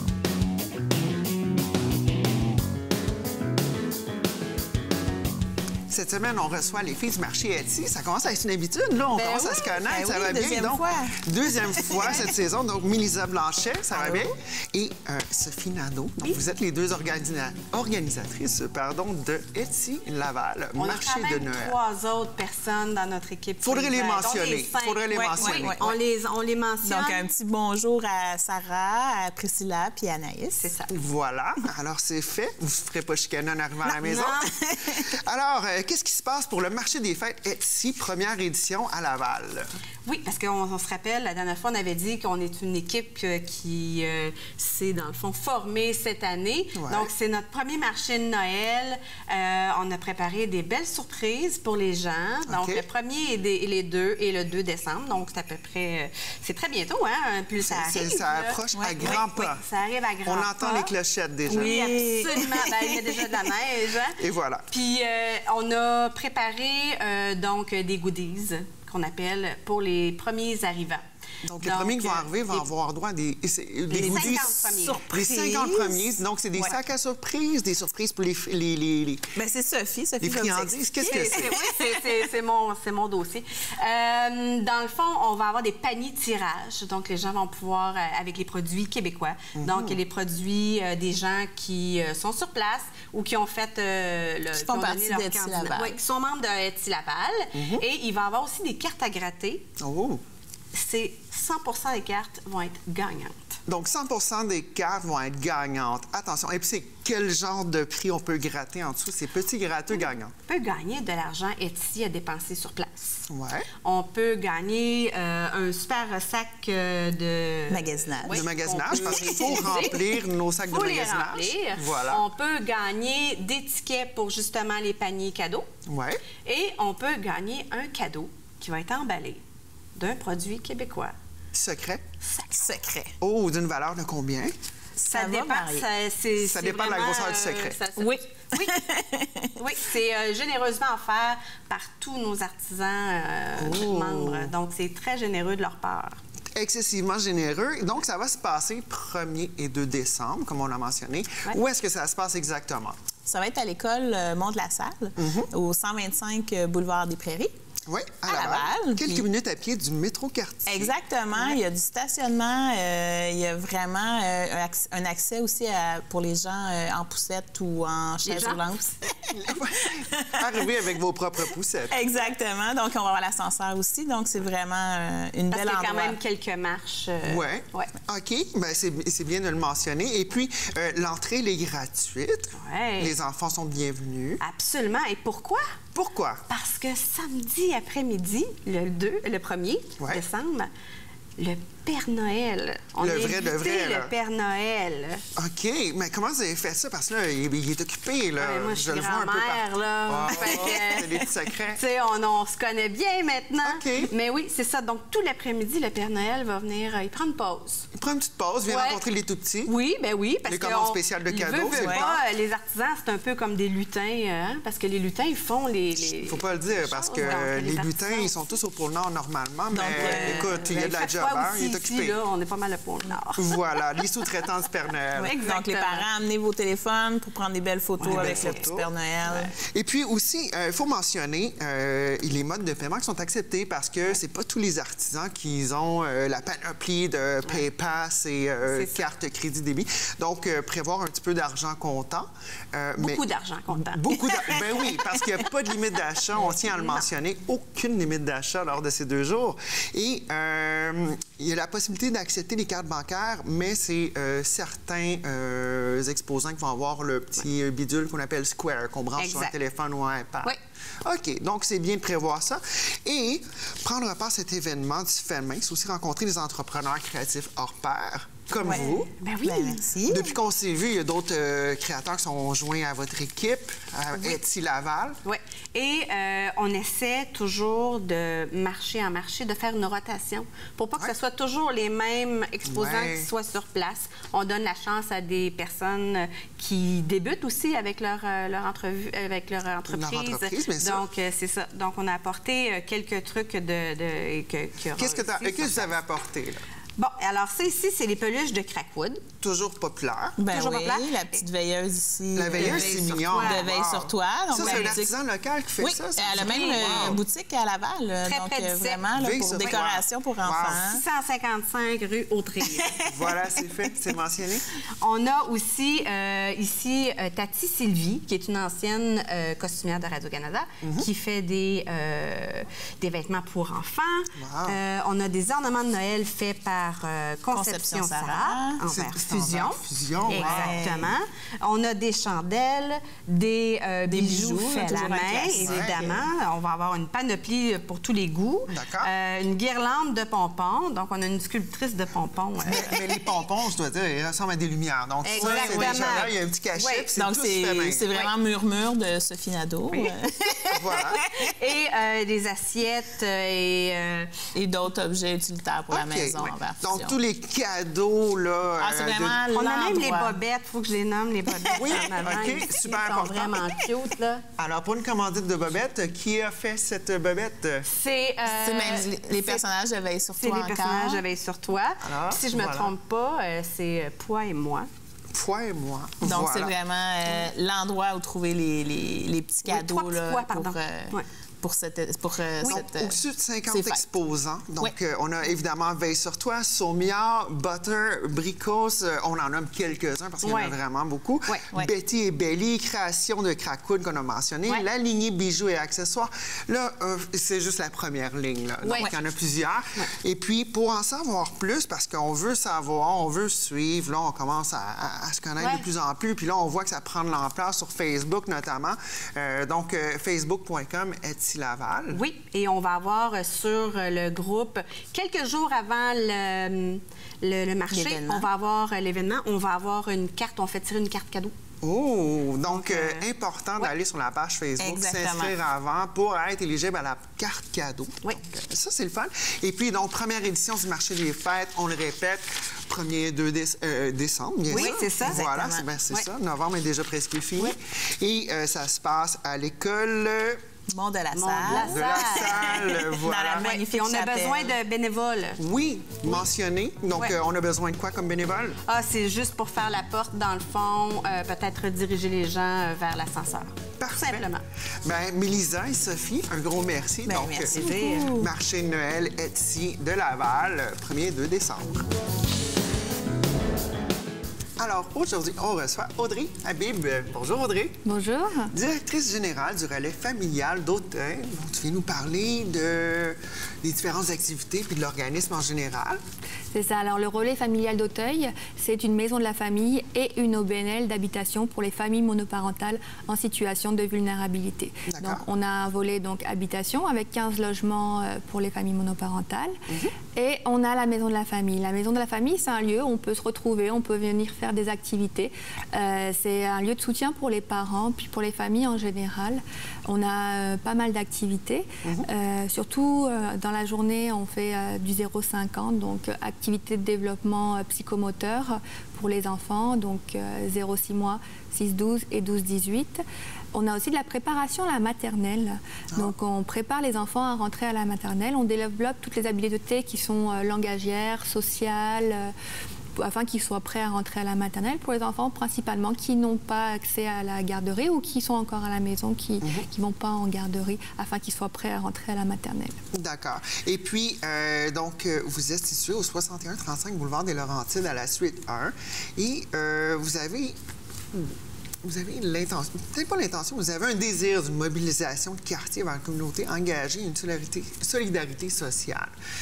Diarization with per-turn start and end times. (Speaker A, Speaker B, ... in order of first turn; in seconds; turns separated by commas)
Speaker A: 5.9-21.7, Speaker B: 9.1-9.8, Speaker C: 9.8-12.2, Speaker C: 13.9-14.2, Speaker B: 20.8-27.3, Speaker A: 23.6-25.8, Speaker C: 25.1-26.0, Speaker C: 26.8-30.7, Speaker B: 30.6-30.9, Speaker A: 30.9-34.4, Speaker B: 34.0-34.5, Speaker C: 34.4-35.0, Speaker A: 35.1-39.7, Speaker B: 40.0-60.9, Speaker A: 46.7-47.1, Speaker A: 52.5-52.8, Speaker A: 57.6-59.6, Speaker C: 58.7-59.5, Speaker A: 60.2-61.8, Speaker C: 61.5-63.5, Speaker B: 61.5-64.2, Speaker A: 64.1-64.7, Speaker B: 64.7-71.0, Speaker A: 71.4-79.3, Speaker B: 71.6-72.6, Speaker B: 73.9-75.0, Speaker C: 73.9-76.8, Speaker C: 79.3-82.0, Speaker A: 80.2-81.6, Speaker B: 81.0-99.7, Speaker A: 89.5-90.0, Speaker C: 94.5-96.0, Speaker A: 97.5-97.8, Speaker A: 99.8-100.2, Speaker B: 100.7-103.6, Speaker A: 103.7-110.3, Speaker B: 110.5-113.2, Speaker A: 113.3-113.7, Speaker B: 113.8-125.7, Speaker C: 117.7-119.8, Speaker A: 118.3-122.2, Speaker A: 125.9-126.2, Speaker B: 126.4-129.4, Speaker B: 129.9-131.1, Speaker A: 131.5-132.0, Speaker C: 132.4-133.1, Speaker A: 133.2-134.6, Speaker C: 135.0-135.8, Speaker B: 135.0-138.8, Speaker A: 136.4-137.8, Speaker C: 138.0-139.5, Speaker B: 139.6-146.2, Speaker A: 143.6-144.5, Speaker A: 146.5-153.0, Speaker C: 153.2-157.5, Speaker A: 155.2-155.5, Speaker A: 157.9-160.9, Speaker C: 158.2-159.3, Speaker C: 160.7-169.1, Speaker B: 168.2-168.9, Speaker A: 169.3-171.9, Speaker C: 171.9-176.2, Speaker B: 175.5-177.9, Speaker A: 177.2-184.4, Speaker B: 182.6-183.2, Speaker B: 184.4-185.8, Speaker A: 185.9-186.4, Speaker B: 186.5-190.7, Speaker B: 191.4-195.2, Speaker A: 193.0-194.1, Speaker A: 195.3-201.8, Speaker B: 198.4-207.9, Speaker C: 200.4-200.8, Speaker A: 203.6-204.1, Speaker A: 207.9-209.7, Speaker B: 208.7-209.0, Speaker B: 209.7-218.3, Speaker A: 210.5-212.2, Speaker C: 211.7-212.1, Speaker A: 216.2-222.1, Speaker C: 219.7-220.6, Speaker B: 219.9-223.6, Speaker A: 223.4-225.3, Speaker C: 225.2-229.5, Speaker B: 225.2-226.1, Speaker B: 228.0-228.6, Speaker A: 228.0-228.9, Speaker B: 229.2-229.5, Speaker A: 229.7-269.1, Speaker B: 238.7-239.1, Speaker B: 243.0-244.6, Speaker B: 246.3-247.0, Speaker B: 259.2-259.5, Speaker C: 268.5-270.3, Speaker B: 269.2-269.9, Speaker A: 270.1-275.2, Speaker B: 275.2-295.9, Speaker A: 282.7-283.3, Speaker A: 289.9-291.1, Speaker A: 295.0-296.6, Speaker B: 297.0-299.2, Speaker A: 299.4-300.4, Speaker C: 300.4-305.1, Speaker B: 300.5-301.4, Speaker A: 302.3-307.2, Speaker B: 302.5-303.7, Speaker B: 304.5-305.0, Speaker C: 305.8-311.0, Speaker B: 306.3-307.2, Speaker B: 308.2-309.1, Speaker A: 309.2-310.8, Speaker B: 310.8-313.0, Speaker C: 312.6-313.0, Speaker A: 313.0-314.6, Speaker B: 315.0-343.0, Speaker A: 320.8-321.1, Speaker A: 324.3-324.8, Speaker C: 327.5-328.8, Speaker A: 328.9-330.8, Speaker C: 330.3-331.1, Speaker C: 334.1-336.2, Speaker A: 335.4-336.1, Speaker A: 338.7-339.1, Speaker A: 342.6-348.1, Speaker C: 345.2-346.3, Speaker B: 345.3-347.1, Speaker C: 347.1-350.9, Speaker A: 350.7-351.2, Speaker B: 350.9-354.4, Speaker C: 354.5-357.2, Speaker A: 355.9-359.4, Speaker C: 358.8-360.4, Speaker B: 359.5-364.4, Speaker C: 361.5-362.4, Speaker A: 361.8-363.6, Speaker A: 364.6-367.9, Speaker B: 367.9-369.6, Speaker C: 368.5-371.2, Speaker B: 370.4-374.9, Speaker A: 372.0-372.9, Speaker A: 375.3-376.7, Speaker C: 376.2-384.0, Speaker B: 379.6-381.3, Speaker A: 382.6-412.2, Speaker B: 390.4-390.7, Speaker B: 398.8-399.1, Speaker B: 405.6-405.8, Speaker B: 412.1-421.5, Speaker C: 417.9-418.5, Speaker A: 421.8-440.6, Speaker B: 422.7-423.2, Speaker C: 424.8-425.5, Speaker B: 434.7-435.5, Speaker C: 434.7-435.9, Speaker C: 440.9-444.8, Speaker B: 441.3-442.9, Speaker A: 441.7-443.7, Speaker B: 443.6-445.6, Speaker A: 445.6-448.8, Speaker B: 448.9-454.6, Speaker A: 454.0-454.5, Speaker A: 455.0-462.1, Speaker C: 457.2-458.5, Speaker B: 457.7-458.3, Speaker A: 464.8-468.0, Speaker D: 468.0-468.7, Speaker A: 468.7-476.2, Speaker D: 476.7-489.8, Speaker A: 485.1-485.4, Speaker D: 490.3-522.5, Speaker D: 523.2-533.0, Speaker A: 533.1-540.8, Speaker A: 541.3-549.3